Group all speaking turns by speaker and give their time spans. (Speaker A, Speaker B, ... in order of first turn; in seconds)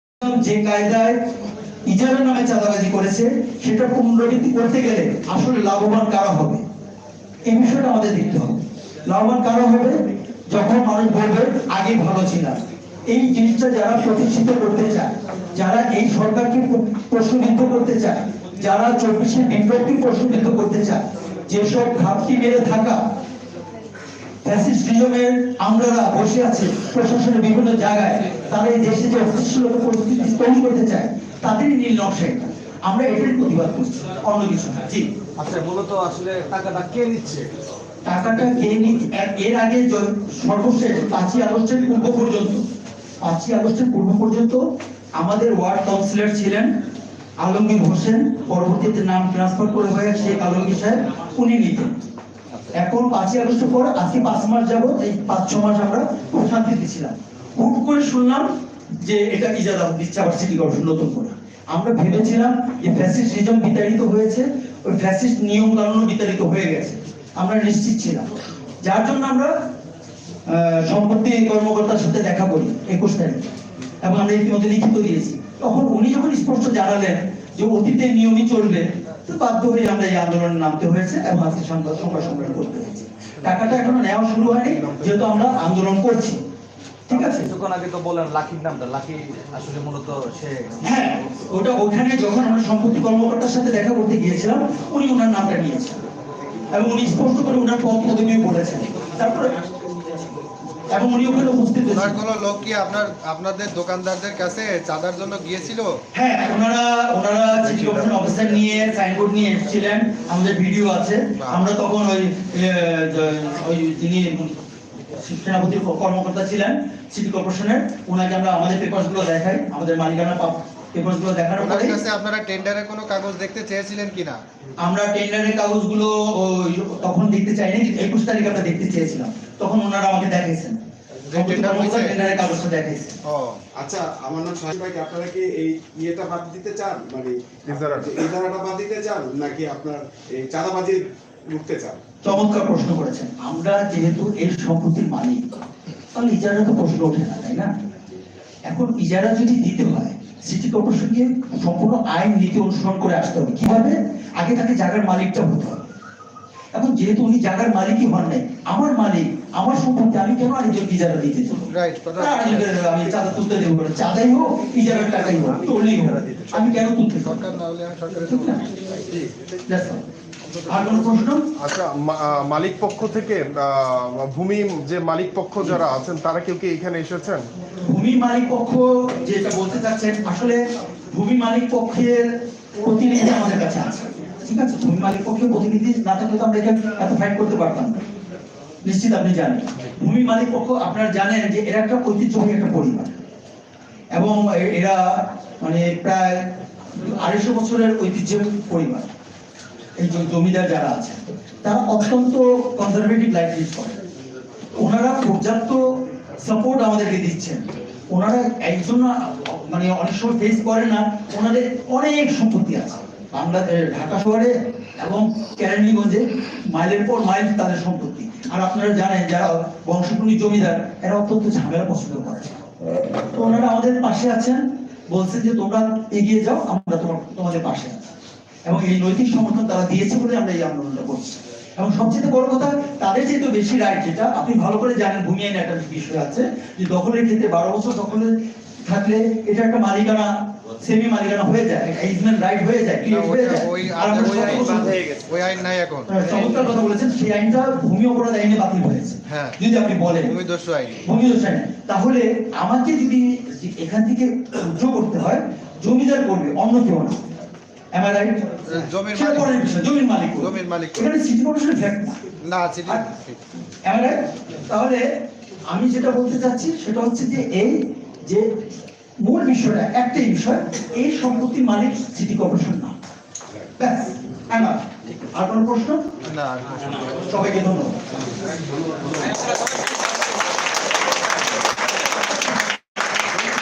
Speaker A: 0.2-1.2, 1.9-6.6, 7.5-23.0, 24.4-35.1, 38.0-42.6, 43.2-44.6, 45.1-46.7, 47.4-52.0, 52.7-58.5, 59.0-69.5, 70.5-73.5, 74.0-86.4, 87.0-87.5, 90.8-96.0, 96.7-99.6, 100.9-102.2, 106.1-114.6, 115.1-122.0, 124.8-130.8, 131.3-133.2, 142.2-145.6, 146.1-147.7, 148.7-155.8, 156.7-167.5, 168.3-168.7, 169.7-170.0, 170.7-171.5, 177.8-188.0, 188.8-193.2, 194.1-199.1, 200.0-204.0, 204.8-222.7, 223.3-228.1, 228.7-245.0, 246.1-250.3, 251.0-257.2, 257.9-262.2, 263.8-265.0, 265.7-268.5, 269.2-273.0, 273.8-276.1, 277.3-278.0
Speaker B: 35.4-37.5, 87.1-90.8, 165.4-166.3
Speaker C: 83.5-83.8, 84.6-85.2, 137.7-138.1, 171.6-177.5
Speaker D: 101.9-106.0, 107.7-108.2, 111.4-111.7, 121.6-124.4, 131.3-132.2, 133.2-133.6, 161.7-163.0, 167.2-169.3, 243.1-246.6, 249.3-249.6, 250.2-251.0, 258.7-259.8, 260.4-261.1, 262.4-263.4, 276.2-276.9
Speaker E: 133.8-142.0